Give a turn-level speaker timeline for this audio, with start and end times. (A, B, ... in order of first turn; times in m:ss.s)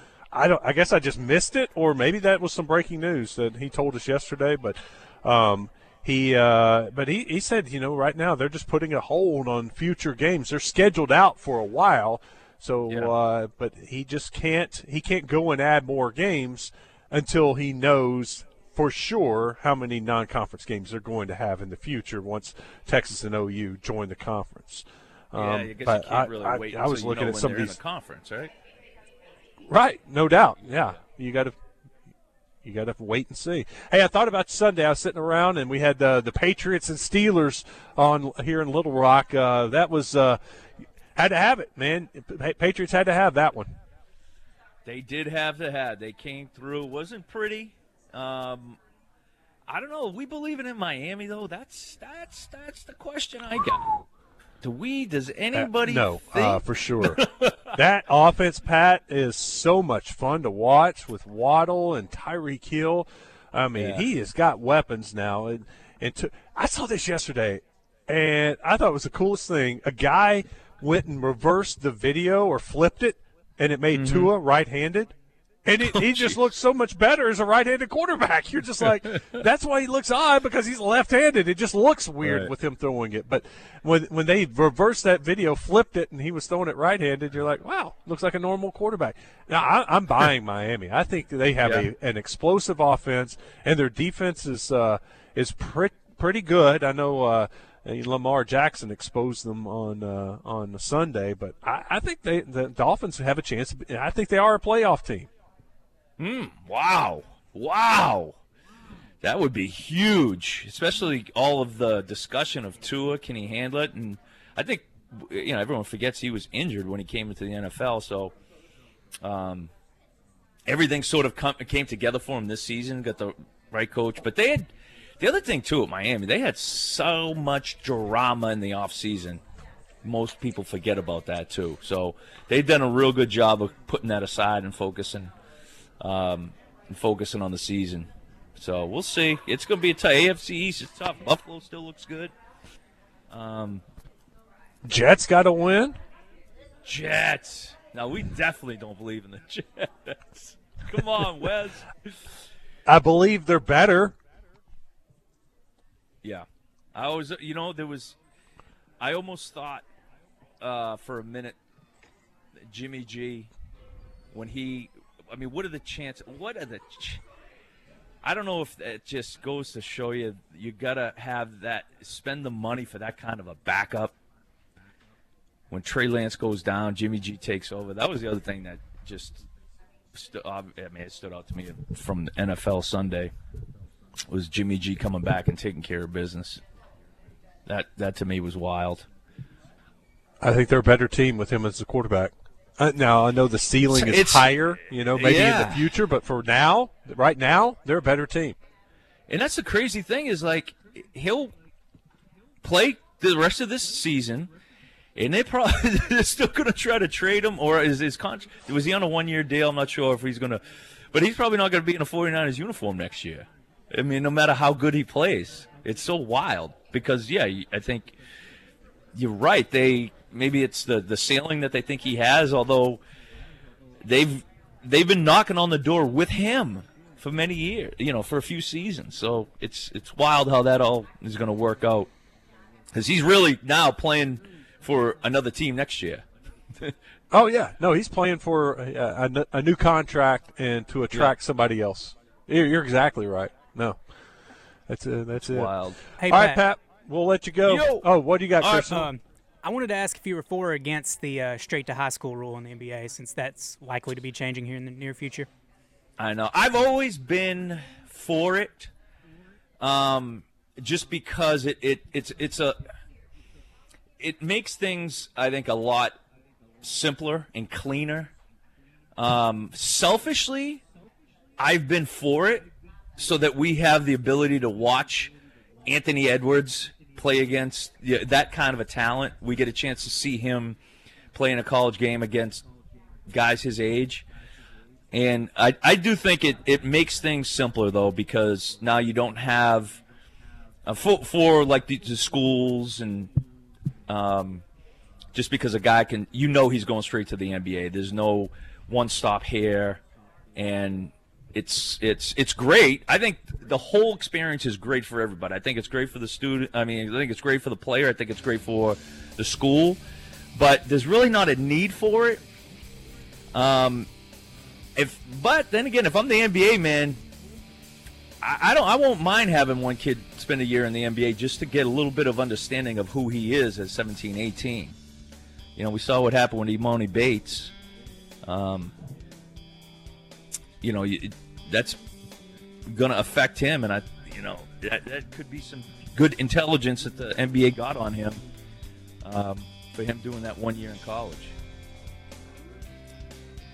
0:00.3-0:27.8 A
0:12.9-0:13.1 B
0:25.4-0:28.5 B
0:29.7-0:31.6 A
0:32.6-0:40.4 A
0:41.2-0:43.7 A
0:44.8-0:48.8 B
0:49.7-0:54.0 B
0:54.6-0:57.7 B
0:55.5-0:57.2 A
0:57.7-1:15.1 A
1:03.7-1:04.1 B
1:13.9-1:14.3 B
1:15.7-1:45.3 A
1:15.8-1:16.4 B
1:22.2-1:22.5 B
1:31.6-1:31.9 B
1:46.2-1:48.4 B
1:49.2-1:58.4 B
1:59.2-1:59.7 B
2:00.7-2:04.7 B
2:05.2-2:09.4 B
2:10.0-2:15.3 B
2:16.0-2:22.3 B
2:23.3-2:23.8 B
2:24.9-2:26.0 A
2:26.8-2:32.1 B
2:32.9-2:34.1 A
2:36.2-2:38.2 B
2:39.0-2:39.9 B
2:40.6-2:41.6 B
2:42.7-2:43.5 B
2:44.3-2:47.2 B
2:48.2-2:54.2 B
2:55.7-2:59.4 B
3:00.1-3:03.3 B
3:04.3-3:06.6 B
3:07.7-3:09.1 B
3:10.4-3:18.6 A
3:13.9-3:14.6 B
3:15.1-3:15.9 B
3:19.3-3:21.5 B
3:22.6-3:24.5 B
3:25.2-3:38.2 B
3:39.2-3:43.0 B
3:44.0-3:52.1 B
3:52.9-3:56.2 B
3:57.3-4:04.0 A
4:04.9-4:05.7 A
4:05.4-4:06.0 B
4:06.2-4:06.6 C
4:06.2-4:09.1 A
4:07.7-4:08.1 B
4:08.6-4:09.1 B
4:09.0-4:15.5 C
4:16.2-4:18.9 B
4:19.8-4:22.8 B
4:24.2-4:26.2 B
4:26.8-4:28.3 B
4:29.2-4:30.8 B
4:31.6-4:35.3 B
4:35.9-4:40.8 B
4:41.3-4:42.6 B
4:43.3-4:44.3 B
4:45.1-4:50.0 B
4:50.9-4:53.3 B
4:54.1-4:54.6 B
4:55.4-5:00.0 B
5:00.6-5:10.0 B
5:10.6-5:12.4 B
5:13.5-5:14.1 B
5:15.0-5:17.2 B
5:18.4-5:25.0 B
5:25.8-5:27.7 B
5:28.5-5:28.9 B
5:30.8-5:32.0 B
5:32.9-5:38.4 B
5:39.2-5:41.6 B